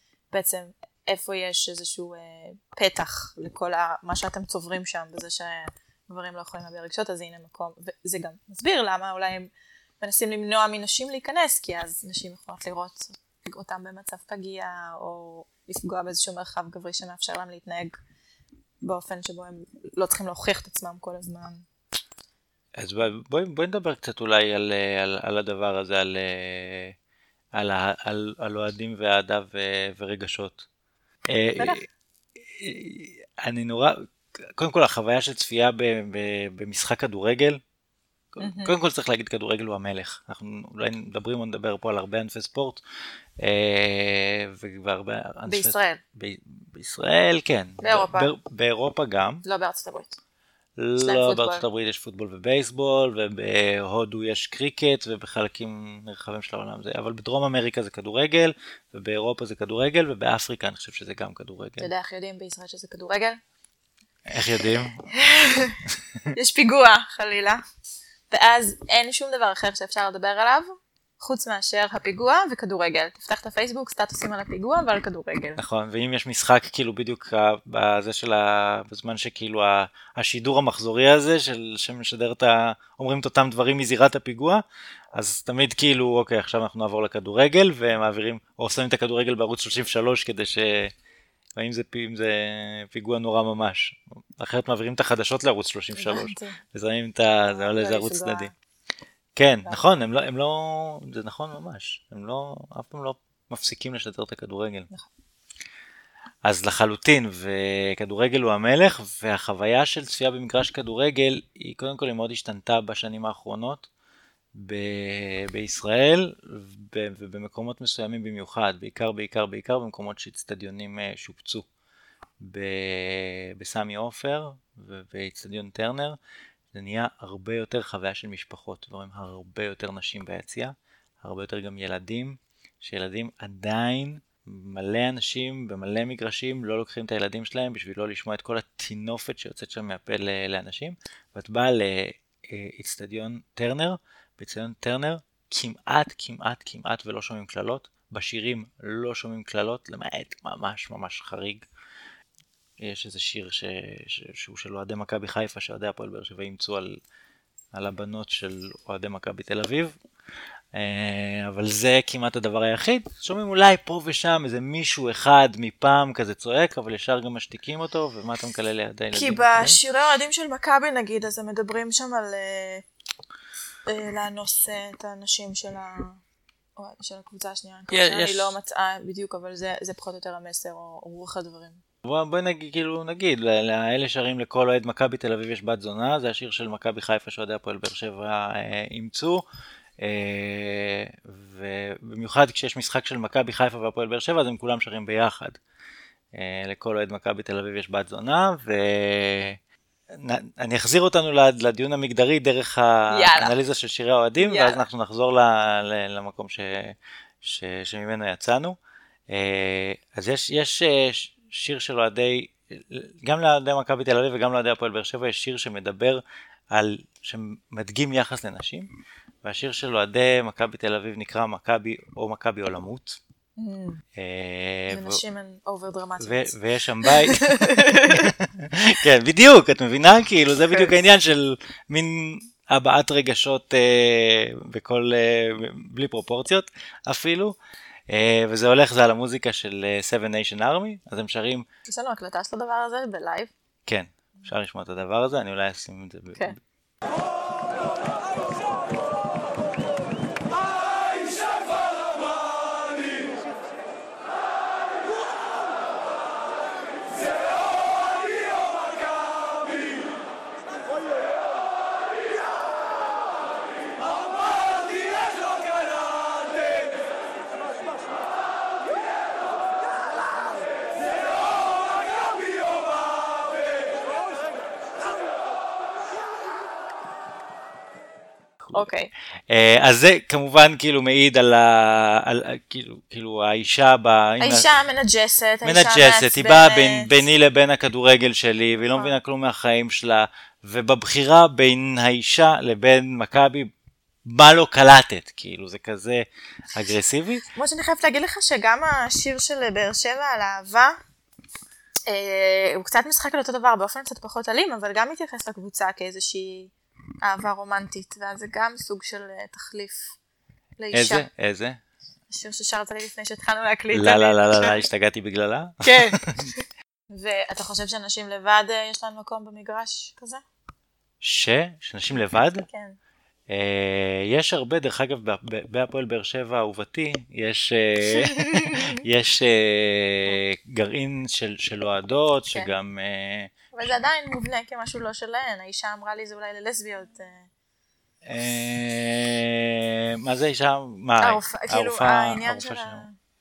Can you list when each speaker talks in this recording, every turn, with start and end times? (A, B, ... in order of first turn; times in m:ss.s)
0:00.3-0:18.0 A
0:18.8-0:21.7 A
0:22.8-0:27.0 B
0:27.5-0:30.7 B
0:31.3-0:37.6 B
0:31.6-0:31.8 A
0:38.3-0:42.8 B
0:38.4-0:38.7 A
0:43.4-0:49.4 B
0:45.5-0:46.0 A
0:47.8-0:48.3 A
0:49.4-0:50.2 A
0:50.8-1:01.9 B
0:51.0-0:51.6 A
1:01.8-1:03.4 A
1:04.3-1:05.1 B
1:05.1-1:05.8 A
1:06.3-1:07.6 A
1:08.3-1:15.6 A
1:15.6-1:30.9 B
1:31.6-1:38.5 B
1:36.0-1:36.6 A
1:37.4-1:38.5 A
1:39.4-1:44.9 B
1:46.4-1:53.9 B
1:54.5-2:01.7 B
2:02.4-2:06.2 B
2:06.7-2:31.7 B
2:32.8-2:37.0 B
2:37.7-2:40.0 B
2:40.7-2:49.8 B
2:49.1-2:52.8 A
2:53.9-2:56.2 A
2:56.8-3:01.8 A
2:57.9-2:58.6 B
3:02.0-3:09.4 B
3:10.0-3:15.6 B
3:16.3-3:19.6 B
3:20.1-3:28.8 B
3:23.1-3:23.5 A
3:24.4-3:24.8 A
3:29.3-3:38.9 B
3:39.4-3:43.2 B
3:43.6-3:44.0 A
3:44.2-3:45.2 B
3:44.9-3:48.3 A
3:46.2-3:57.6 B
3:50.6-3:50.9 A
3:58.1-4:01.7 B
4:01.9-4:03.5 A
4:03.9-4:06.6 B
4:38.7-4:39.1 A
4:39.5-4:44.7 B
4:44.4-4:47.2 A
4:45.6-4:53.7 B
4:48.9-4:49.2 A
4:54.2-4:57.4 B
4:57.5-5:01.0 A
5:02.1-5:10.2 A
5:10.8-5:11.3 A
5:10.9-5:11.8 B
5:12.3-5:14.8 A
5:13.9-5:16.4 B
5:15.8-5:20.4 A
5:21.2-5:22.7 B
5:22.6-5:23.0 A
5:23.5-5:33.7 B
5:28.1-5:29.0 A
5:33.7-5:37.5 A
5:38.2-5:43.0 B
5:41.2-5:43.2 A